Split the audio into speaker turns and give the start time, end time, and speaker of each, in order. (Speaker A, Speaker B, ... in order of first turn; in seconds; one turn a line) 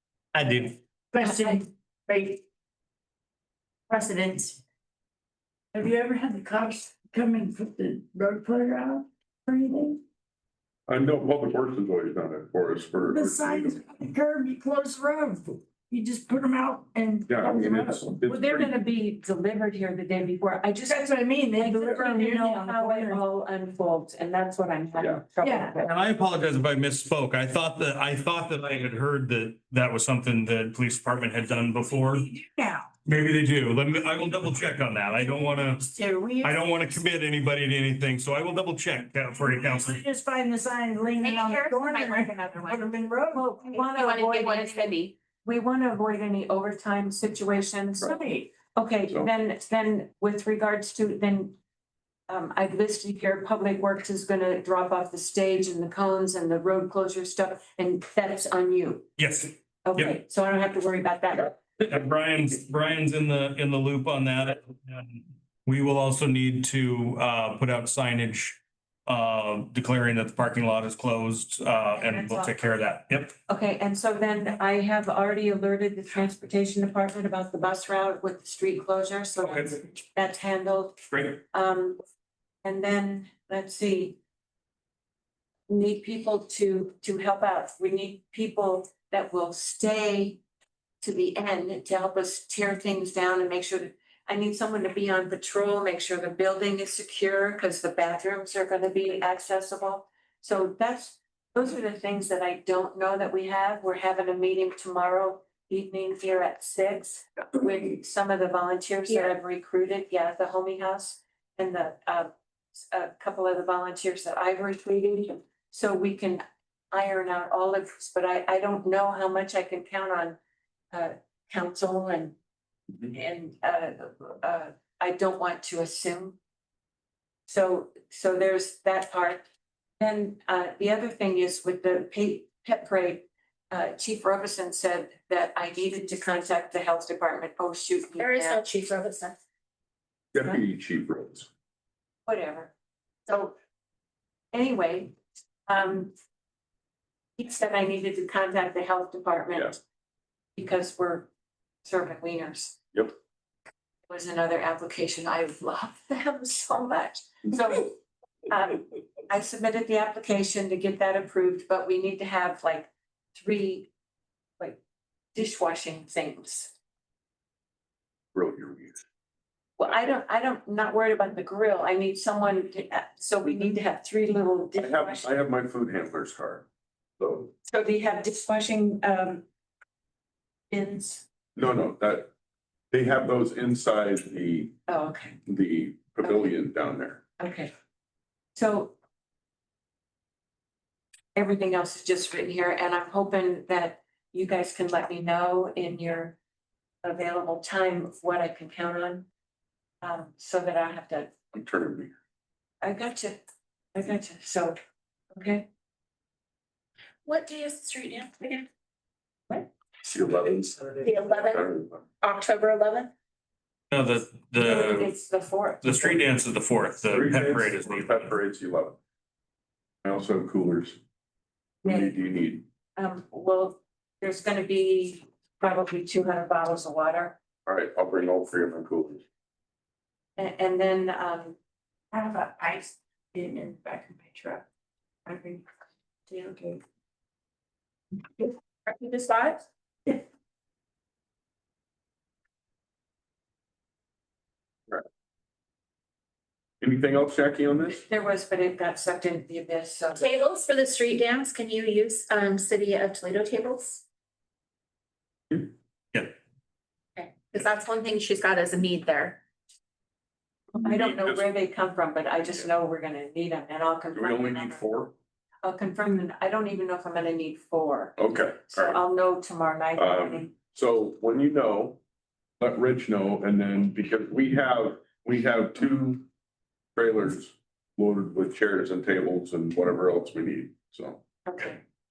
Speaker A: 0.3-0.8
Speaker B: 1.1-2.4
Speaker C: 1.2-1.6
Speaker B: 3.9-4.6
Speaker B: 5.7-10.0
Speaker D: 10.9-13.8
Speaker B: 13.0-18.1
Speaker D: 17.3-18.7
Speaker C: 18.3-25.9
Speaker B: 20.8-23.2
Speaker B: 25.4-25.7
Speaker A: 25.8-32.3
Speaker B: 31.9-32.9
Speaker A: 33.0-35.9
Speaker B: 35.3-37.0
Speaker A: 36.4-40.0
Speaker B: 39.5-44.6
Speaker E: 41.2-42.9
Speaker C: 43.3-48.1
Speaker E: 43.7-45.1
Speaker B: 48.0-48.5
Speaker C: 48.7-51.5
Speaker C: 52.3-59.1
Speaker A: 59.2-60.1
Speaker C: 59.8-61.6
Speaker A: 61.8-73.3
Speaker C: 71.9-72.7
Speaker C: 73.5-81.0
Speaker A: 79.4-79.7
Speaker A: 81.1-81.4
Speaker C: 81.5-82.0
Speaker C: 82.6-84.2
Speaker C: 85.7-90.4
Speaker C: 91.0-112.3
Speaker C: 112.8-120.4
Speaker C: 120.9-122.3
Speaker C: 123.1-126.4
Speaker C: 127.5-129.5
Speaker C: 130.0-138.6
Speaker E: 138.2-139.3
Speaker D: 140.3-141.5
Speaker C: 142.3-142.7
Speaker C: 143.3-143.5
Speaker C: 144.5-145.1
Speaker C: 145.7-146.1
Speaker C: 147.4-149.8
Speaker C: 150.6-151.3
Speaker C: 151.8-152.8
Speaker C: 154.1-163.9
Speaker C: 165.3-166.7
Speaker D: 168.3-169.0
Speaker C: 169.8-175.3
Speaker D: 174.8-176.7
Speaker D: 177.2-177.5
Speaker C: 177.7-179.4
Speaker C: 180.7-181.2
Speaker D: 181.6-182.3
Speaker D: 182.9-184.8
Speaker C: 184.9-185.4
Speaker D: 185.5-187.2
Speaker C: 186.2-186.6
Speaker C: 187.4-187.7
Speaker C: 188.5-188.9
Speaker C: 191.3-196.4
Speaker C: 197.0-199.2
Speaker C: 200.0-201.3
Speaker D: 201.5-202.1
Speaker C: 202.8-203.4
Speaker C: 203.9-204.8
Speaker C: 205.3-205.7
Speaker E: 207.2-208.7
Speaker D: 210.0-212.0
Speaker E: 211.0-211.7
Speaker E: 212.2-213.1
Speaker A: 213.9-215.1
Speaker C: 214.6-216.3
Speaker A: 215.8-218.2
Speaker D: 217.1-219.0
Speaker D: 220.0-221.0
Speaker C: 221.8-222.2
Speaker D: 221.8-222.7
Speaker C: 223.0-227.4
Speaker D: 227.7-229.2
Speaker C: 230.4-231.6
Speaker E: 233.5-234.2
Speaker E: 235.3-235.6
Speaker E: 236.4-236.7
Speaker E: 238.4-239.6
Speaker D: 246.8-248.0
Speaker C: 247.9-250.3
Speaker E: 250.2-254.0
Speaker E: 257.2-259.4
Speaker C: 260.8-264.9
Speaker D: 260.8-261.5
Speaker D: 264.1-265.1
Speaker C: 265.6-270.5
Speaker D: 268.2-269.0
Speaker D: 270.0-272.0
Speaker D: 272.6-276.3
Speaker D: 277.0-281.2
Speaker C: 281.5-281.8